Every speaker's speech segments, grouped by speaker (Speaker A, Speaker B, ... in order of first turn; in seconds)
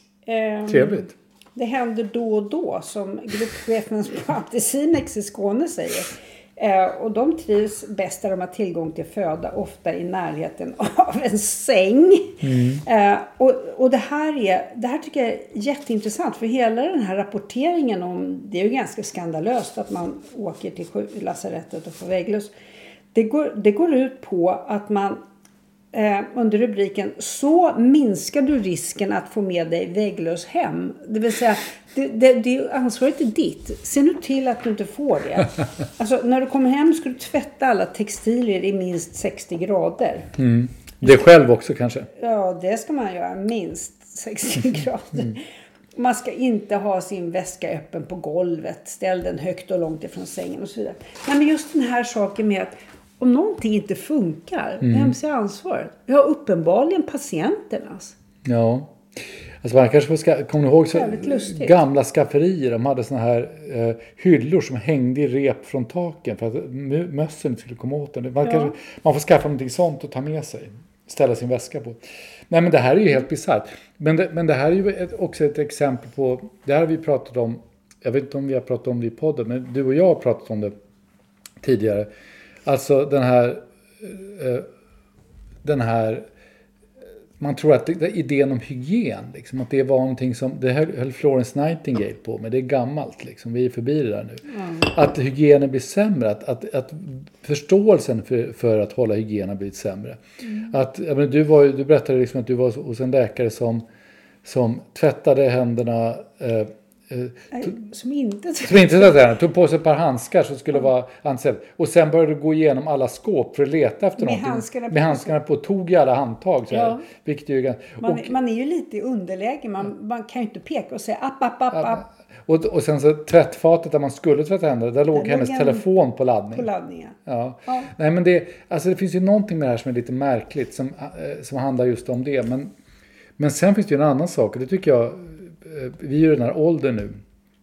Speaker A: 0.3-22.5, 23.1-25.2, 25.9-40.3, 42.2-45.4, 46.0-58.1, 60.9-61.8, 68.4-68.7, 94.5-94.9, 107.5-109.1, 114.2-115.3, 116.7-117.0, 118.0-122.0, 125.1-125.8, 126.5-127.9
Speaker B: 0.7-1.1, 12.4-12.8, 40.4-42.1, 54.8-55.1, 58.4-72.0, 72.5-80.7, 81.6-82.1, 82.7-84.7, 85.6-86.3, 87.4-103.8, 104.4-107.7, 108.7-118.3, 121.7-126.7, 127.3-132.7, 133.4-137.2